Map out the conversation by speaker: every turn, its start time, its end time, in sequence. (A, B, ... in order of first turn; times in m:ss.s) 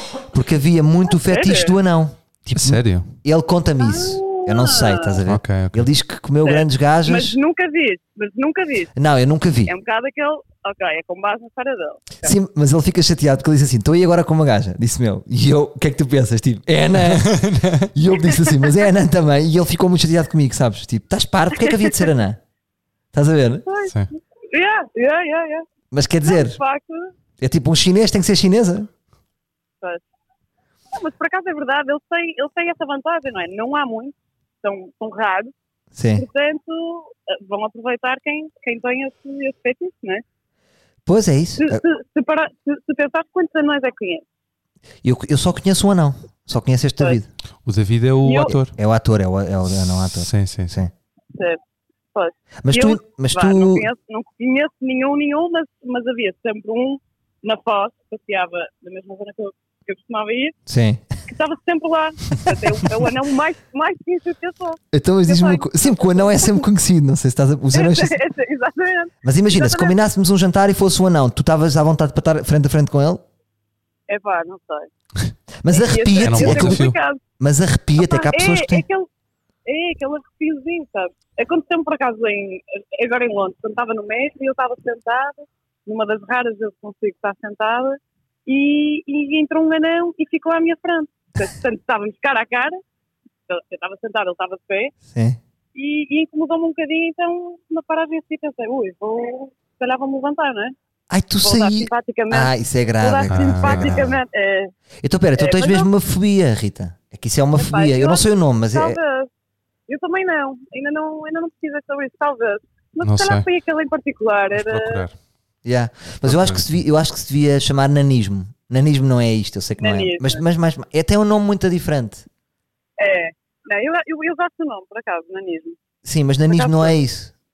0:00.3-0:07.4 A
0:01.2-0:01.7 B
0:02.5-0:03.1 C
0:03.8-0:05.2 B
0:05.2-0:05.9 C
0:06.4-0:08.9 B
0:08.9-0:09.7 A
0:09.6-0:12.4 B
0:12.2-0:22.4 A
0:17.0-0:17.9 C
0:23.1-0:23.6 A
0:23.6-0:25.6 B
0:25.9-0:26.6 A
0:26.2-0:27.1 B
0:27.4-0:28.9 A
0:30.9-0:35.5 B
0:35.9-0:36.2 A
0:36.1-0:40.2 B
0:41.0-0:41.8 A
0:41.6-0:44.2 B
0:45.0-0:47.3 A
0:47.6-0:48.8 C
0:48.2-0:48.5 B
0:48.5-0:50.9 A
0:49.8-0:50.8 C
0:51.3-0:51.6 B
0:52.1-1:00.6 B
0:52.6-0:53.9 A
1:00.7-1:01.0 A
1:01.3-1:06.6 B
1:04.9-1:08.2 A
1:07.7-1:09.9 B
1:09.2-1:13.2 A
1:14.1-1:14.9 B
1:15.6-1:16.8 A
1:15.7-1:17.2 B
1:16.2-1:17.0 C
1:17.4-1:18.8 A
1:18.0-1:19.1 B
1:19.6-1:32.8 B
1:33.5-1:34.9 B
1:35.0-1:35.4 A
1:35.7-1:40.8 B
1:41.1-1:44.1 A
1:41.4-1:44.7 B
1:43.3-1:44.1 C
1:45.0-1:49.0 A
1:45.4-1:45.9 B
1:47.5-1:49.3 B
1:49.9-1:55.0 B
1:53.0-1:53.4 C
1:54.5-1:55.2 C
1:55.6-2:02.2 A
1:56.2-1:56.6 C
1:59.8-2:00.4 B
2:03.0-2:05.8 B
2:06.0-2:07.3 A
2:06.5-2:06.9 B